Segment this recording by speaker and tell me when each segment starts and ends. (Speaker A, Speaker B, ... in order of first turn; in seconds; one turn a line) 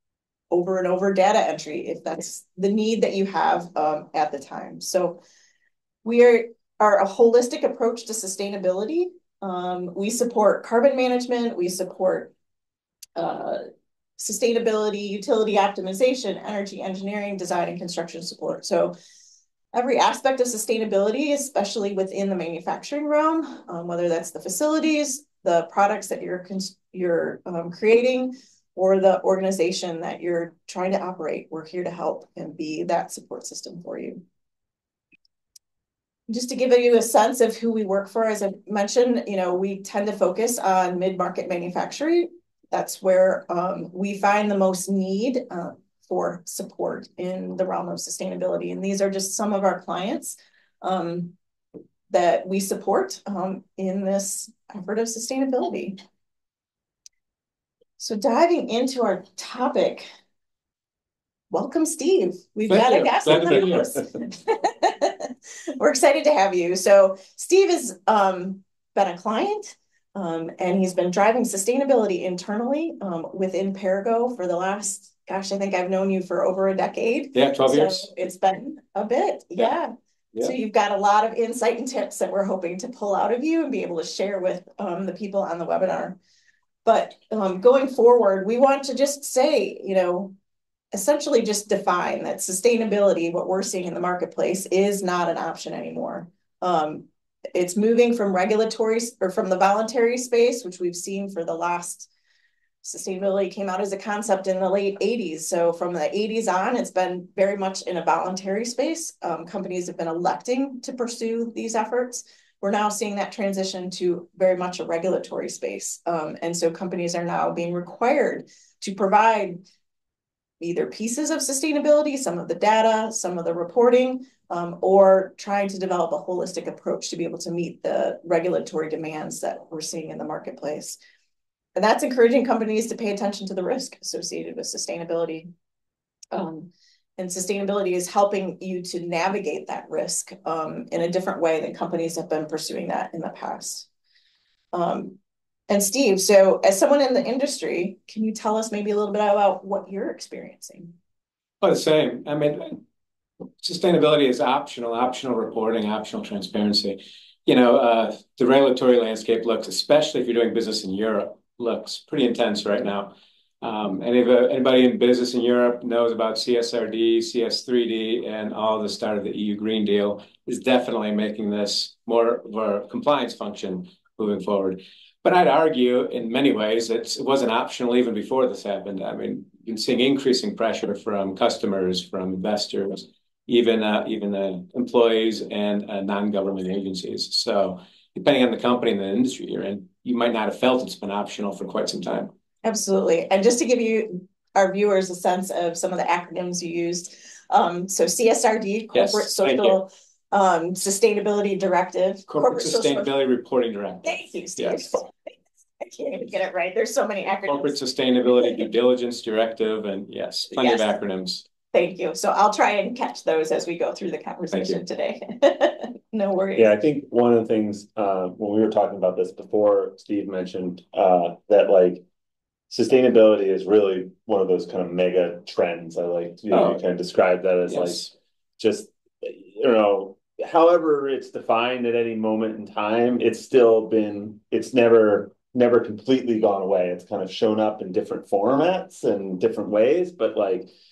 Speaker A: 0.5-5.2
Speaker A: 6.0-12.3
Speaker A: 13.2-13.6
Speaker A: 14.2-18.9
Speaker A: 19.7-34.2
Speaker A: 36.3-51.3
Speaker A: 52.1-56.0
Speaker A: 58.0-60.1
Speaker A: 61.5-86.2
Speaker B: 62.7-63.9
Speaker B: 77.3-78.1
Speaker A: 86.8-90.3
Speaker A: 90.9-102.1
Speaker A: 102.8-119.6
Speaker A: 120.6-131.0
Speaker A: 131.8-135.5
Speaker A: 136.3-143.9
Speaker A: 144.7-145.2
Speaker A: 145.7-150.9
Speaker B: 151.6-152.8
Speaker B: 153.6-192.3
Speaker A: 192.6-203.1
Speaker B: 198.9-199.8
Speaker B: 202.3-205.0
Speaker A: 204.0-205.3
Speaker A: 205.8-207.8
Speaker B: 207.5-211.4
Speaker A: 210.5-210.9
Speaker A: 211.7-216.7
Speaker B: 214.5-214.8
Speaker C: 216.6-222.1
Speaker C: 222.7-240.7
Speaker B: 226.5-226.8
Speaker B: 227.7-228.1